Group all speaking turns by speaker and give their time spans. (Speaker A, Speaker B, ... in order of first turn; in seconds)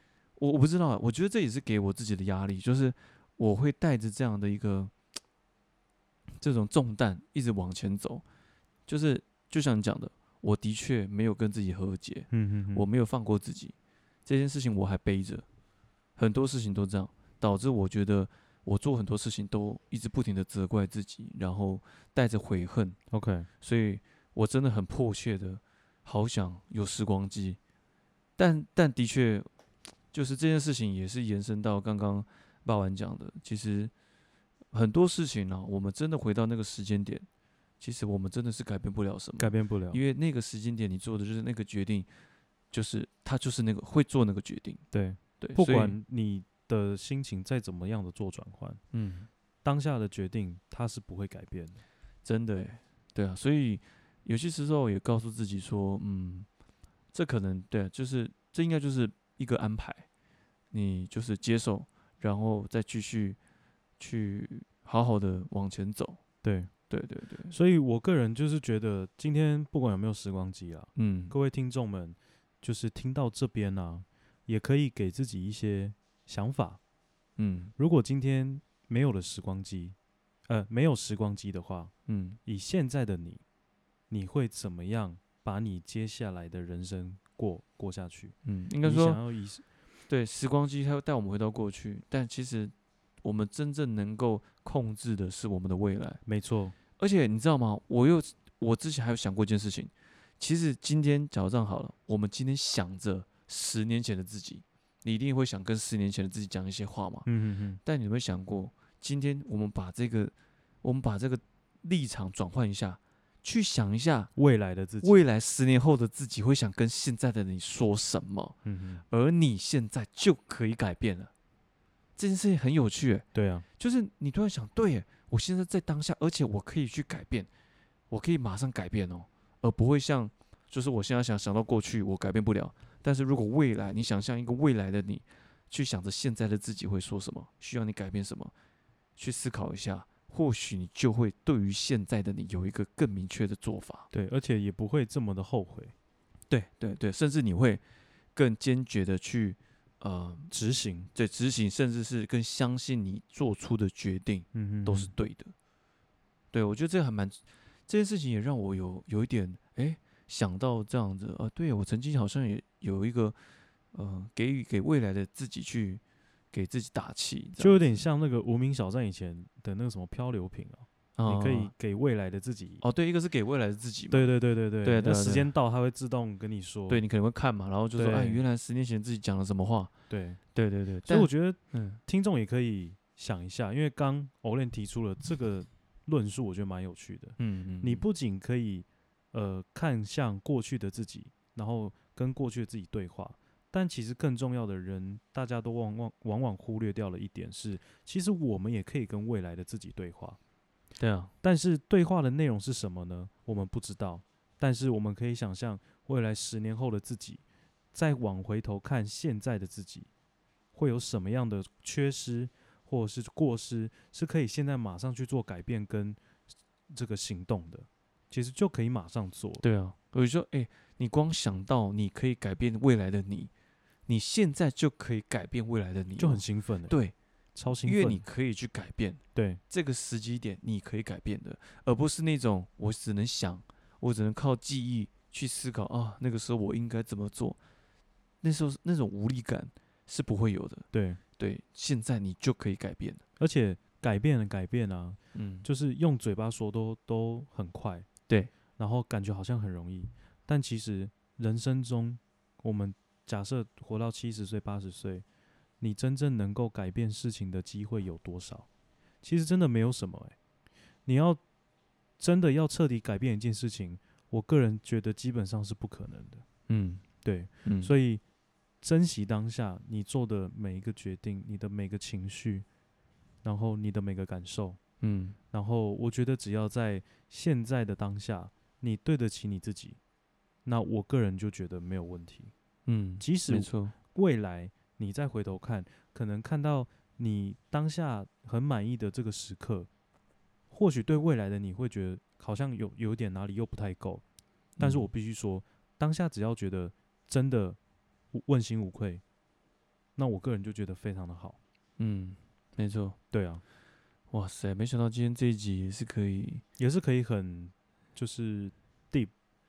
Speaker A: 0.4-4.9, 6.4-8.2, 8.9-13.7, 14.2-15.4, 16.2-23.0, 23.6-27.6, 28.4-29.5, 30.1-33.9, 34.7-37.3, 37.8-42.1, 42.7-44.8, 45.4-46.0, 48.9-49.3, 52.2-56.5, 57.1-60.1, 60.7-63.4, 64.0-66.2, 66.9-67.5, 71.0-71.3, 77.4-77.7, 82.1-82.4, 88.4-89.2, 90.1-96.2, 97.0-107.3, 107.8-114.3, 115.0-118.5, 119.1-121.3, 122.2-123.2, 123.8-127.5, 128.1-138.5, 139.2-144.1, 146.5-147.8, 148.3-150.5, 151.1-155.5, 156.5-163.4, 163.9-168.0, 171.2-171.7, 172.8-174.3, 174.8-175.5, 176.9-179.9, 180.5-182.0, 187.4-188.0, 201.0-201.3, 219.6-223.5, 224.1-227.1, 227.8-237.6, 238.4-240.9, 241.4-243.2, 245.3-245.7, 266.7-267.0, 267.6-267.9, 275.0-275.4, 282.9-283.9, 294.8-295.1, 302.0-303.2, 304.3-306.6
Speaker B: 12.3-12.8, 23.1-23.5, 39.4-40.0, 44.9-48.8, 49.6-51.8, 66.4-66.7, 67.5-76.8, 77.8-80.0, 80.5-81.9, 82.4-83.4, 84.1-89.6, 96.2-96.8, 107.2-107.8, 114.3-115.2, 118.6-119.0, 123.3-123.6, 144.1-145.9, 150.5-151.1, 154.5-155.1, 167.6-172.8, 174.1-177.0, 177.9-178.4, 180.1-180.4, 181.1-200.4, 201.4-207.4, 207.9-210.1, 210.7-216.2, 216.9-219.6, 226.2-226.9, 227.5-228.2, 229.3-229.6, 240.9-241.2, 243.4-248.1, 248.8-255.2, 255.8-258.7, 259.2-260.4, 261.1-261.4, 262.2-266.4, 267.2-268.2, 268.8-272.6, 273.4-274.8, 275.5-280.0, 280.6-282.5, 283.2-289.9, 290.7-294.2, 294.8-297.8, 298.3-299.2, 300.1-301.6, 303.3-303.6, 306.8-309.3